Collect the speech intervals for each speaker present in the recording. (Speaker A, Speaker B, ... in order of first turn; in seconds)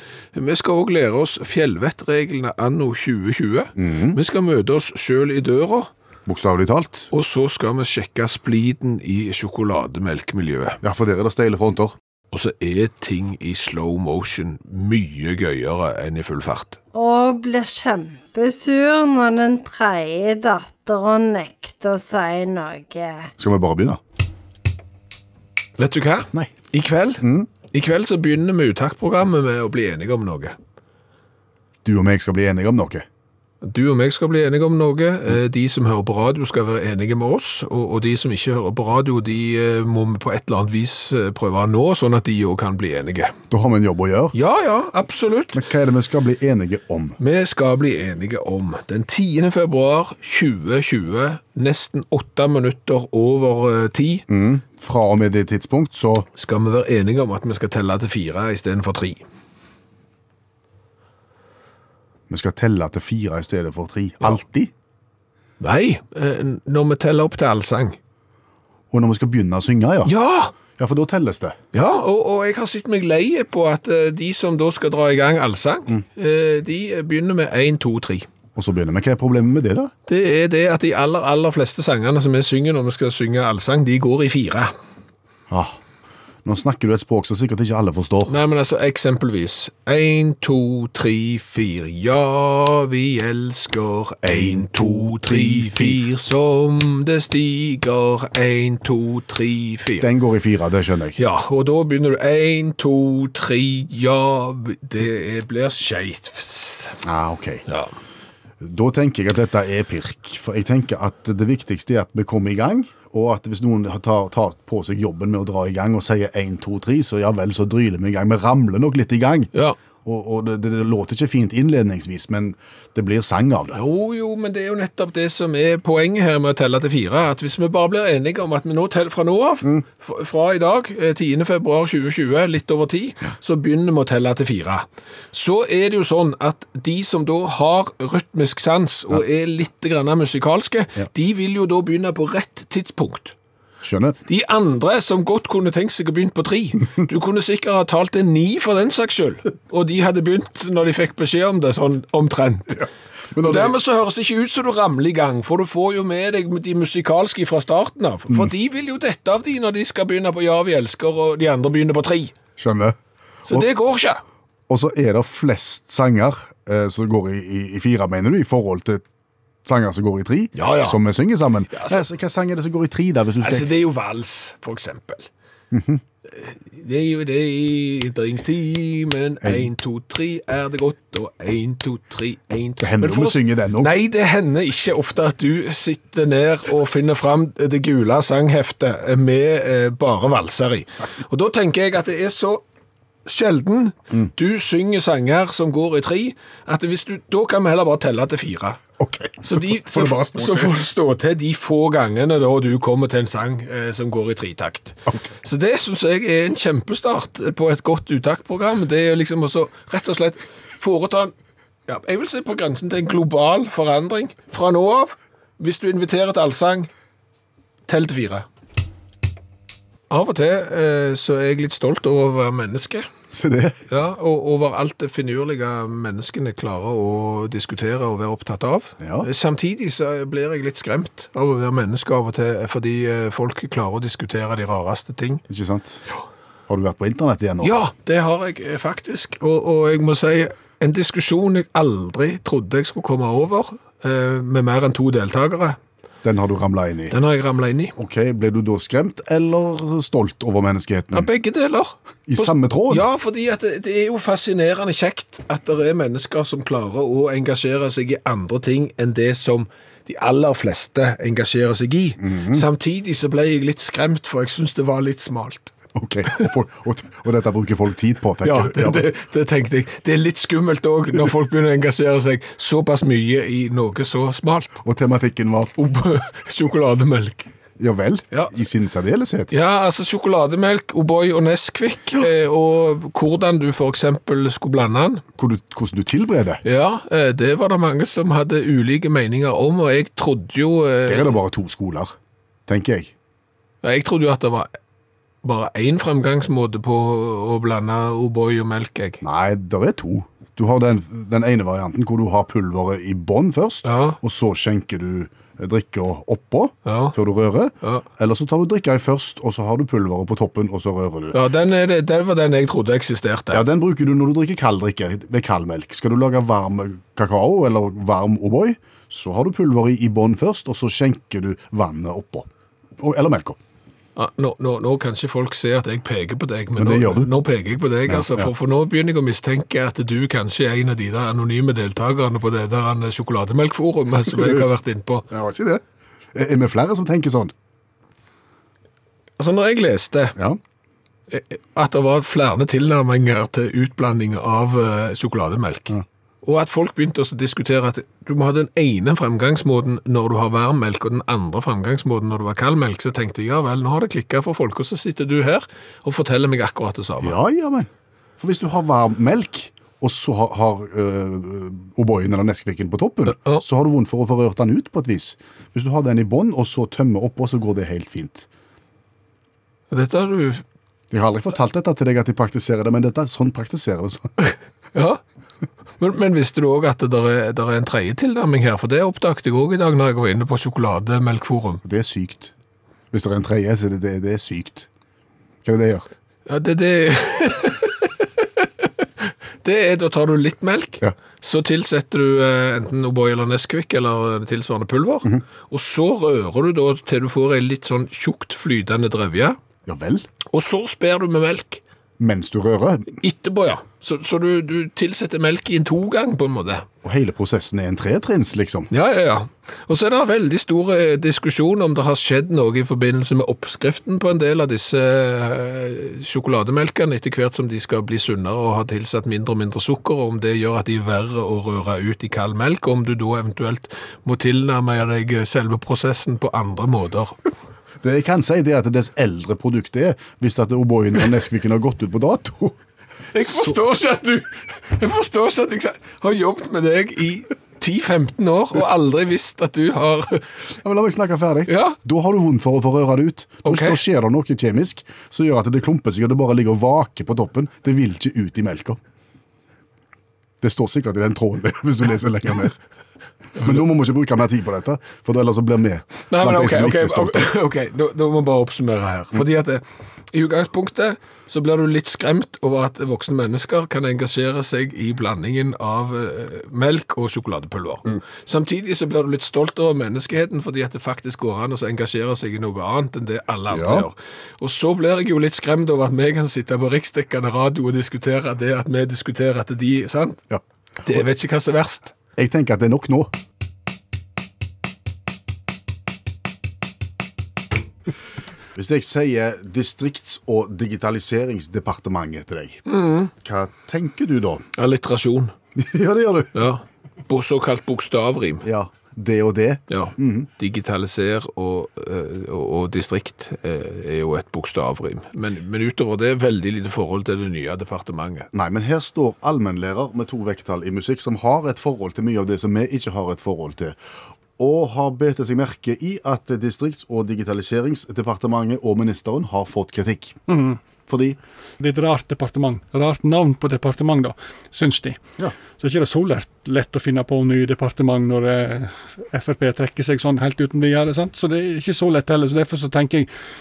Speaker A: 0.3-5.9, 7.1-10.8, 12.3-16.8, 25.8-30.6, 33.6-43.3, 44.3-45.6, 47.2-54.2, 56.4-59.2, 65.6-68.0, 70.0-70.5, 71.7-78.3, 80.1-84.7, 88.3-100.1, 101.2-107.0, 123.7-143.3, 144.3-152.8, 153.4-162.3, 163.5-164.2, 170.6-171.0, 171.7-172.0, 173.4-175.3, 176.3-192.6, 193.2-198.8, 199.4-211.3, 211.9-216.9, 217.9-218.4, 220.1-223.1, 223.9-235.4, 237.6-245.8, 247.1-247.9, 251.1-265.7, 268.4-274.8, 275.8-277.5, 279.5-285.2, 286.6-291.3, 293.8-294.7, 295.4-299.2, 303.9-304.2, 306.9-307.1, 311.3-313.6, 324.1-335.3, 339.4-340.4, 341.3-357.4, 369.9-370.6, 374.4-375.2, 376.0-381.8, 386.5-388.6, 389.6-399.6, 400.5-401.8, 403.2-406.9, 408.9-427.4, 433.3-440.5, 441.7-442.0, 443.6-444.0, 456.3-480.4, 481.0-482.1, 492.9-493.3, 494.8-495.5, 496.5-498.6, 499.9-508.5
Speaker B: 3.8-4.2, 6.2-7.1, 10.8-11.9, 23.4-24.0, 27.2-27.5, 31.8-33.0, 43.5-44.4, 45.5-47.2, 54.3-56.3, 62.3-64.7, 68.9-71.6, 78.5-79.9, 85.5-85.8, 86.4-88.3, 94.2-96.0, 100.0-101.2, 107.0-107.6, 108.6-119.5, 120.0-123.8, 143.8-144.2, 152.8-153.8, 162.6-163.0, 164.7-169.0, 169.6-173.7, 175.7-176.0, 182.8-183.9, 199.0-200.7, 223.3-223.8, 229.0-229.3, 235.5-236.0, 236.7-237.8, 246.2-247.2, 247.9-251.3, 252.3-253.1, 262.2-262.6, 265.9-269.1, 274.8-275.8, 277.8-279.5, 285.4-286.6, 291.1-292.1, 292.7-293.1, 299.2-311.4, 313.5-323.6, 326.8-327.3, 328.1-328.5, 334.4-334.6, 335.3-335.8, 336.3-337.5, 357.2-368.5, 371.1-374.3, 381.8-382.5, 383.1-384.9, 385.6-386.1, 399.9-400.3, 402.2-403.2, 407.0-408.9, 428.0-432.8, 433.4-433.8, 440.8-449.0, 450.6-452.8, 453.6-457.4, 473.7-474.1, 482.4-483.3, 488.7-492.8, 493.4-494.6, 495.7-496.6, 498.6-500.5, 508.5-514.0, 514.6-520.4, 521.1-521.4
Speaker C: 16.9-23.3
Speaker D: 520.5-520.8, 521.8-525.2, 525.8-533.3